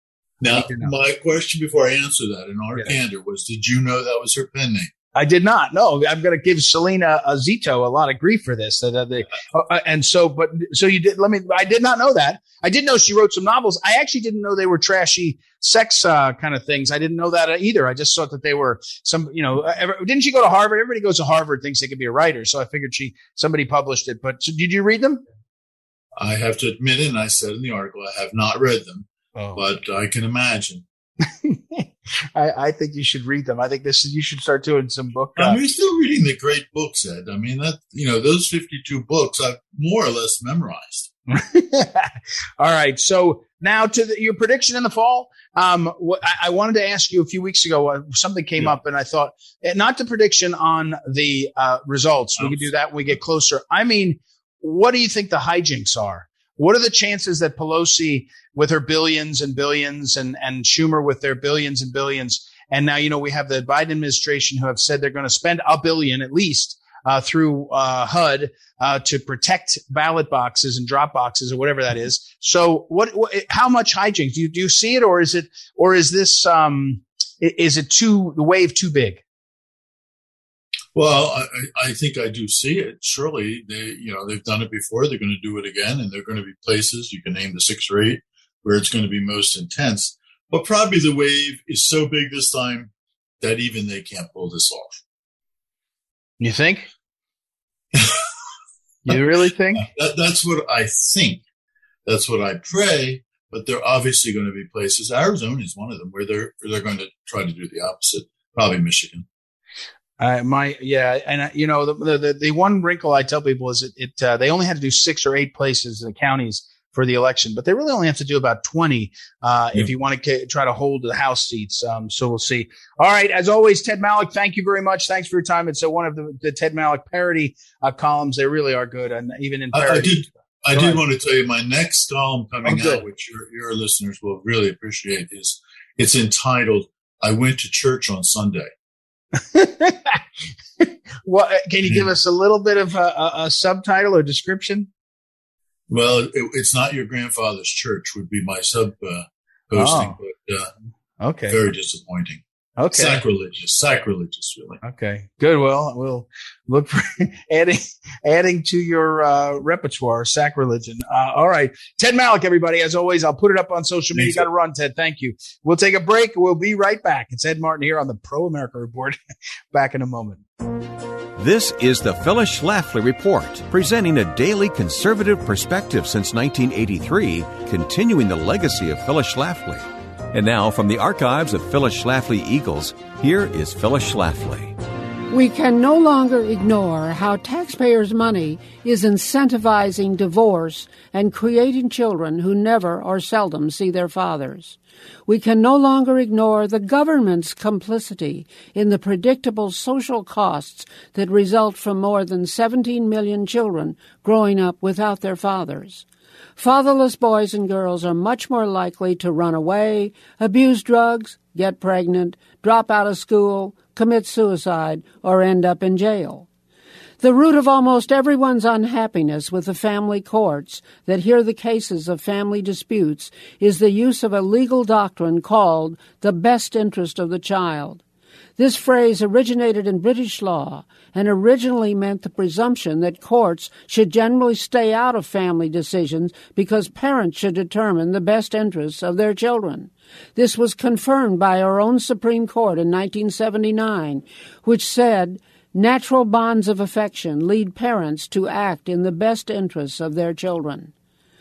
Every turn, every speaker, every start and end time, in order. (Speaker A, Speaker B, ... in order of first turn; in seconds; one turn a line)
Speaker A: 0.4-4.9
Speaker B: 0.5-0.9
Speaker B: 5.2-25.2
Speaker A: 26.2-30.8
Speaker B: 29.4-29.6
Speaker B: 31.4-35.6
Speaker A: 35.4-41.1
Speaker B: 41.3-79.2
Speaker A: 52.4-52.7
Speaker A: 80.9-95.0
Speaker B: 96.4-96.9
Speaker A: 97.9-98.2
Speaker B: 99.1-99.9
Speaker A: 99.8-101.4
Speaker A: 102.1-109.3
Speaker B: 110.2-130.2
Speaker A: 129.7-138.7
Speaker B: 130.7-131.0
Speaker B: 132.6-133.0
Speaker B: 139.5-140.2
Speaker B: 140.8-144.9
Speaker A: 141.8-142.1
Speaker A: 145.9-150.7
Speaker B: 149.8-150.2
Speaker B: 151.2-151.6
Speaker A: 151.5-154.8
Speaker B: 152.8-153.2
Speaker B: 154.8-169.2
Speaker A: 164.1-164.5
Speaker B: 169.7-170.4
Speaker C: 171.4-184.7
Speaker D: 185.3-206.1
Speaker D: 206.6-216.5
Speaker D: 217.2-228.0
Speaker D: 228.6-250.9